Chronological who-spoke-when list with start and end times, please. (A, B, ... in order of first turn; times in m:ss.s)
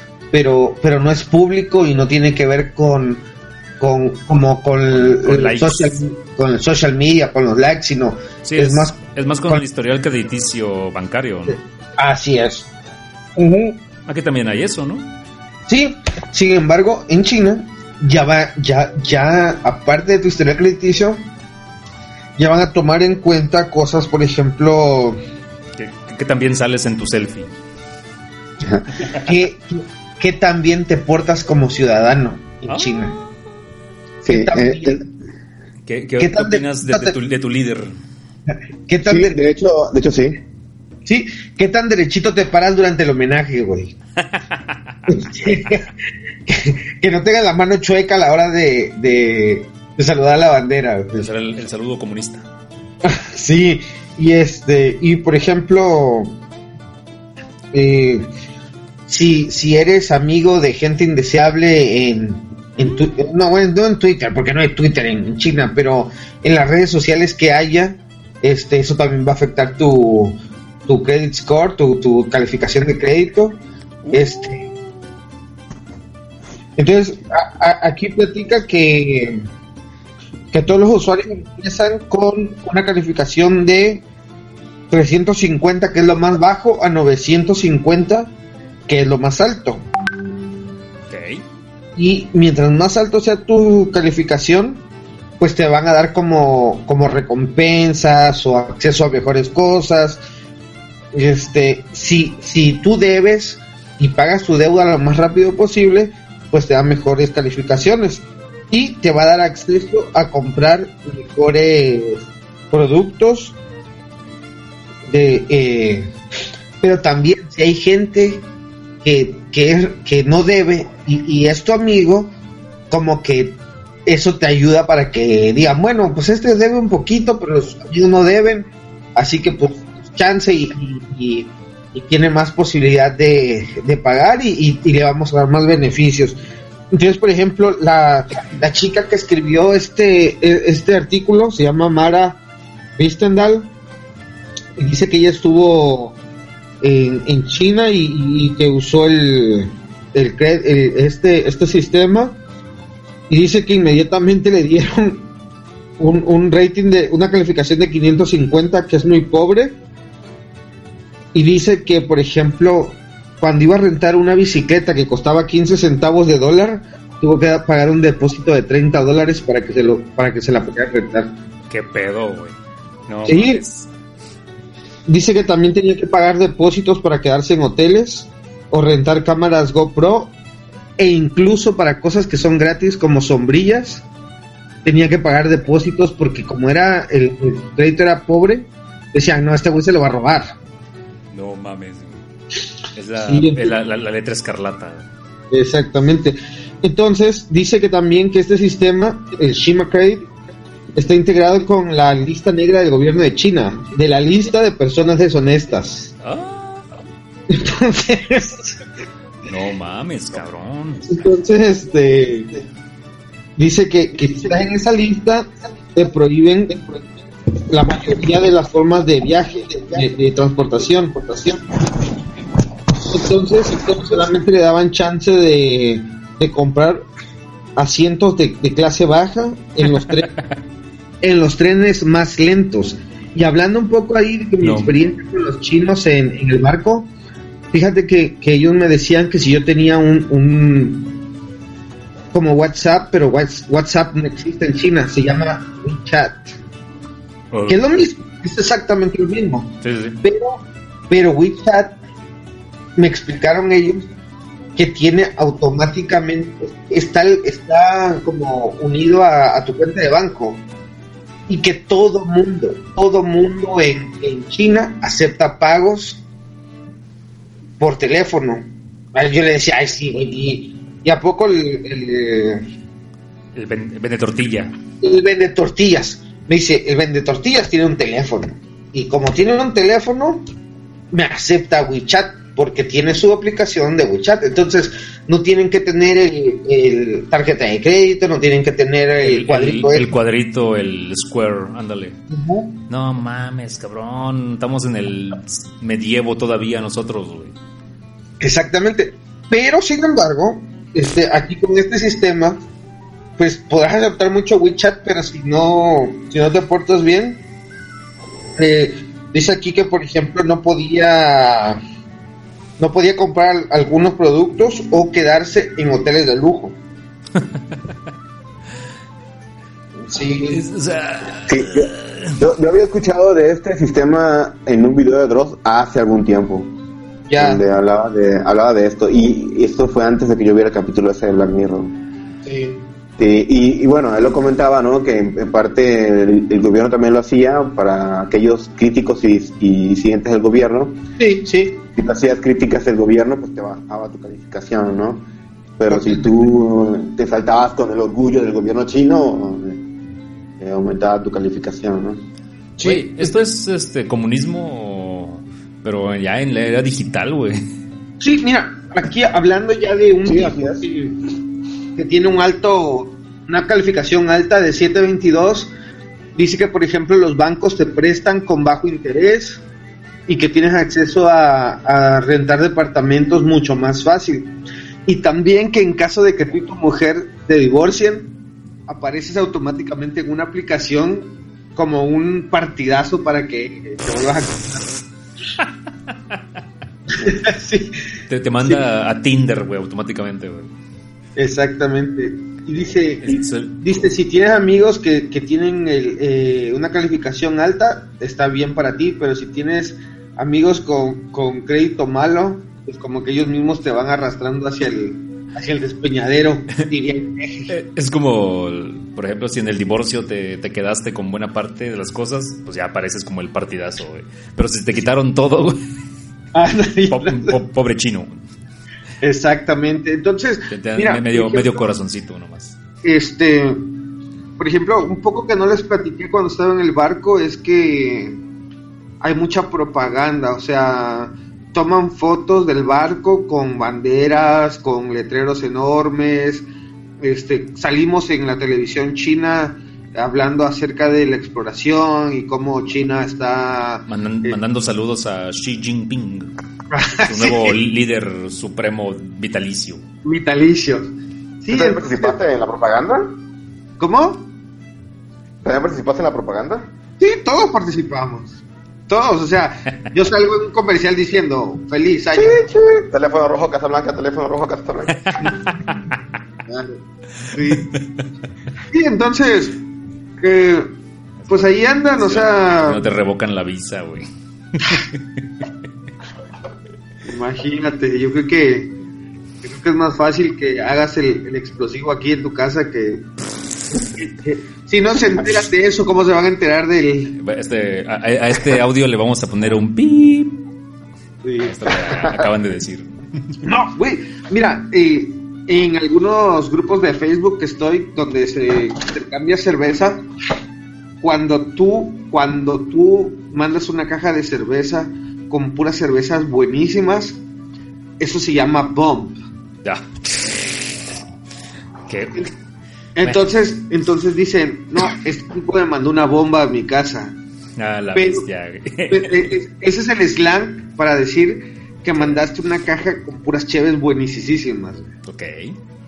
0:00.3-0:03.2 A
0:03.8-0:09.6 A
0:04.9-0:06.0 B
0:08.4-0:11.6 B
0:11.5-0:12.7 A
0:13.4-0:13.8 A
0:14.1-0:15.1 B
0:15.7-0:21.2 A
0:22.4-0:25.2 A
0:25.8-0:27.5 B
0:28.6-0:29.0 C
0:29.1-0:33.1 A
0:32.7-0:33.3 B
0:34.2-0:35.0 C
0:34.2-0:35.0 A
0:35.9-0:37.9 B
0:36.2-0:37.1 A
0:38.9-0:39.4 A
0:39.1-0:40.4 C
0:41.1-0:43.9 A
0:44.2-0:45.0 B
0:45.1-0:45.9 A
0:46.5-0:51.3 A
0:51.2-0:52.5 B
0:53.0-0:56.3 A
0:57.7-0:58.3 A
0:59.1-1:10.4 A
1:10.9-1:13.6 A
1:14.1-1:14.7 A
1:16.8-1:19.4 A
1:20.5-1:24.0 A
1:24.9-1:28.3 A
1:28.9-1:29.8 A
1:31.1-1:31.4 B
1:32.0-1:34.8 A
1:35.4-1:40.2 A
1:41.1-1:53.6 A
1:55.1-1:56.1 A
1:56.8-1:58.4 A
1:59.0-2:02.3 A
2:02.9-2:16.4 A
2:16.9-2:22.4 A
2:23.0-2:23.7 A
2:24.8-2:26.1 A
2:26.8-2:32.4 A
2:33.3-2:35.2 A
2:36.0-2:39.8 A
2:41.3-2:51.3 A
2:51.7-2:52.6 B
2:53.1-2:53.9 B
2:53.3-2:53.6 A
2:55.1-3:00.3 A
3:01.0-3:04.0 A
3:04.8-3:10.6 A
3:11.3-3:12.2 B
3:13.0-3:15.1 B
3:13.2-3:13.7 A
3:15.5-3:20.3 A
3:21.0-3:26.1 A
3:26.2-3:26.9 B
3:27.5-3:28.8 A
3:29.5-3:31.3 B
3:31.1-3:32.6 A
3:33.6-3:37.1 A
3:37.6-3:41.6 A
3:43.0-3:47.1 A
3:47.8-3:50.3 A
3:49.9-3:50.4 B
3:51.2-3:57.1 A
3:54.6-3:55.0 B
3:57.7-4:01.1 A
4:02.3-4:06.6 A
4:07.5-4:07.8 B
4:07.7-4:09.7 A
4:09.8-4:10.2 B
4:10.2-4:12.0 A
4:13.0-4:14.1 A
4:14.8-4:20.6 A
4:21.5-4:26.2 A
4:27.8-4:32.6 A
4:33.6-4:34.7 B
4:35.0-4:40.4 A
4:41.1-4:50.1 A
4:49.2-4:52.2 B
4:52.3-4:52.7 A
4:52.9-4:57.6 B
4:58.4-5:02.6 A
5:03.4-5:07.4 A
5:08.6-5:11.8 A
5:12.8-5:16.8 A
5:20.1-5:20.6 A
5:20.5-5:22.4 B
5:21.5-5:26.7 C
5:27.3-5:27.6 A
5:27.4-5:31.9 C
5:32.4-5:32.8 A
5:33.2-5:41.0 C
5:41.2-5:41.5 A
5:41.5-5:45.2 C
5:45.8-5:49.8 C
5:45.9-5:46.3 A
5:50.6-5:52.2 C
5:52.8-5:53.3 A
5:52.8-5:57.6 B
5:58.2-6:01.2 A
6:00.2-6:00.8 C
6:02.0-6:05.7 A
6:06.4-6:09.6 A
6:10.3-6:14.5 A
6:15.1-6:18.3 A
6:18.9-6:24.9 A
6:27.1-6:28.0 A
6:28.3-6:30.7 B
6:31.4-6:47.7 A
6:33.2-6:34.2 B
6:47.7-6:55.8 B
6:56.6-6:57.6 A
6:57.1-6:58.4 B
6:59.2-7:01.8 A
7:00.7-7:02.8 B
7:03.0-7:03.8 A
7:04.6-7:08.4 A
7:09.2-7:16.7 A
7:17.2-7:24.6 A
7:24.1-7:26.5 B
7:26.9-7:27.8 A
7:27.2-7:30.0 B
7:30.2-7:32.4 A
7:31.7-7:33.3 C
7:34.0-7:34.4 A
7:35.6-7:36.9 C
7:37.2-7:42.6 A
7:42.4-7:45.2 C
7:45.2-7:46.1 B
7:46.7-7:47.0 A
7:47.5-7:47.9 A
7:47.7-7:48.0 B
7:48.9-7:49.8 A
7:50.4-7:50.9 A
7:51.4-7:55.2 B
7:51.5-7:53.1 A
7:57.2-7:58.9 A
7:59.6-8:03.2 A
8:03.9-8:07.4 A
8:07.4-8:10.6 B
8:11.4-8:11.9 A
8:11.6-8:13.6 B
8:13.6-8:20.2 A
8:21.2-8:27.4 A
8:28.2-8:29.4 A
8:29.8-8:31.0 B
8:32.1-8:32.5 B
8:33.2-8:37.4 A
8:37.8-8:39.5 B
8:38.2-8:38.5 A
8:39.1-8:45.1 A
8:45.2-8:45.8 B